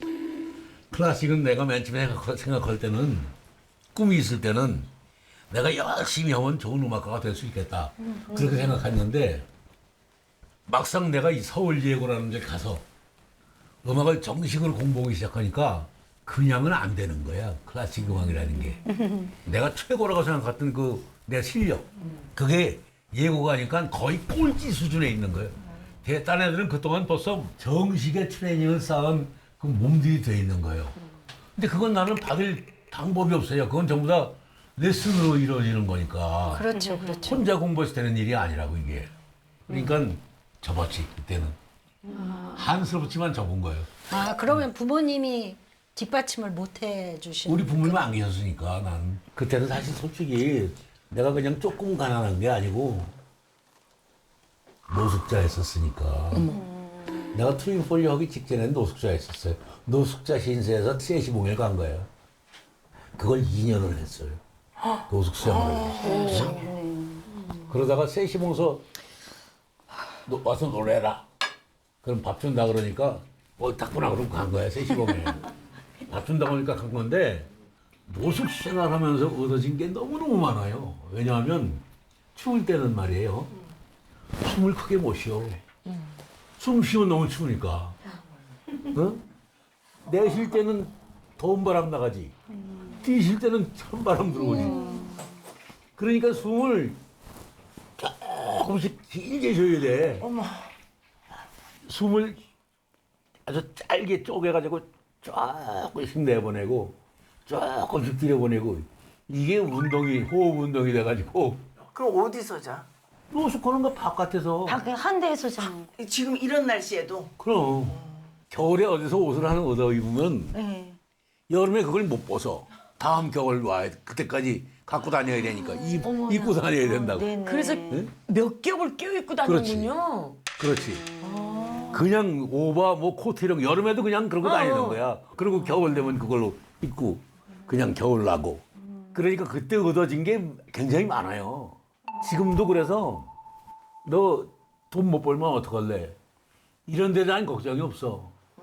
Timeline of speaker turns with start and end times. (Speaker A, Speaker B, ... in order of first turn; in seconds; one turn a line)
Speaker A: 0.9-3.3
Speaker A: 4.0-4.9
Speaker A: 5.5-9.5
Speaker A: 10.7-12.8
Speaker A: 13.8-18.8
Speaker A: 19.4-30.9
Speaker A: 31.6-36.7
Speaker B: 36.5-37.4
Speaker A: 37.2-39.1
Speaker A: 39.7-41.6
Speaker C: 42.1-42.5
Speaker A: 42.5-43.9
Speaker B: 44.1-48.1
Speaker A: 47.5-53.2
Speaker A: 54.9-56.5
Speaker C: 56.4-56.8
Speaker A: 57.3-62.1
Speaker A: 63.1-64.4
Speaker A: 65.1-66.6
Speaker C: 65.6-67.4
Speaker A: 67.7-68.8
Speaker A: 70.3-71.3
Speaker A: 72.0-75.5
Speaker A: 76.1-77.5
Speaker A: 78.1-81.8
Speaker A: 82.3-83.5
Speaker A: 84.4-85.6
Speaker A: 86.6-88.0
Speaker A: 88.9-89.2
Speaker A: 90.0-92.3
Speaker A: 92.9-94.9
Speaker C: 94.5-95.2
Speaker A: 96.0-97.0
Speaker A: 98.0-100.3
Speaker D: 100.2-100.7
Speaker A: 101.9-102.4
Speaker A: 103.5-111.6
Speaker D: 111.9-112.9
Speaker A: 113.3-114.8
Speaker C: 114.7-115.9
Speaker D: 116.0-117.3
Speaker A: 117.4-118.0
Speaker A: 118.5-120.6
Speaker C: 120.5-121.0
Speaker A: 121.5-127.3
Speaker E: 125.9-126.6
Speaker C: 126.8-128.1
Speaker E: 127.4-130.5
Speaker A: 129.4-130.0
Speaker A: 130.6-131.1
Speaker E: 131.2-132.0
Speaker A: 131.9-143.3
Speaker E: 134.4-135.0
Speaker A: 144.1-146.2
Speaker A: 146.9-148.3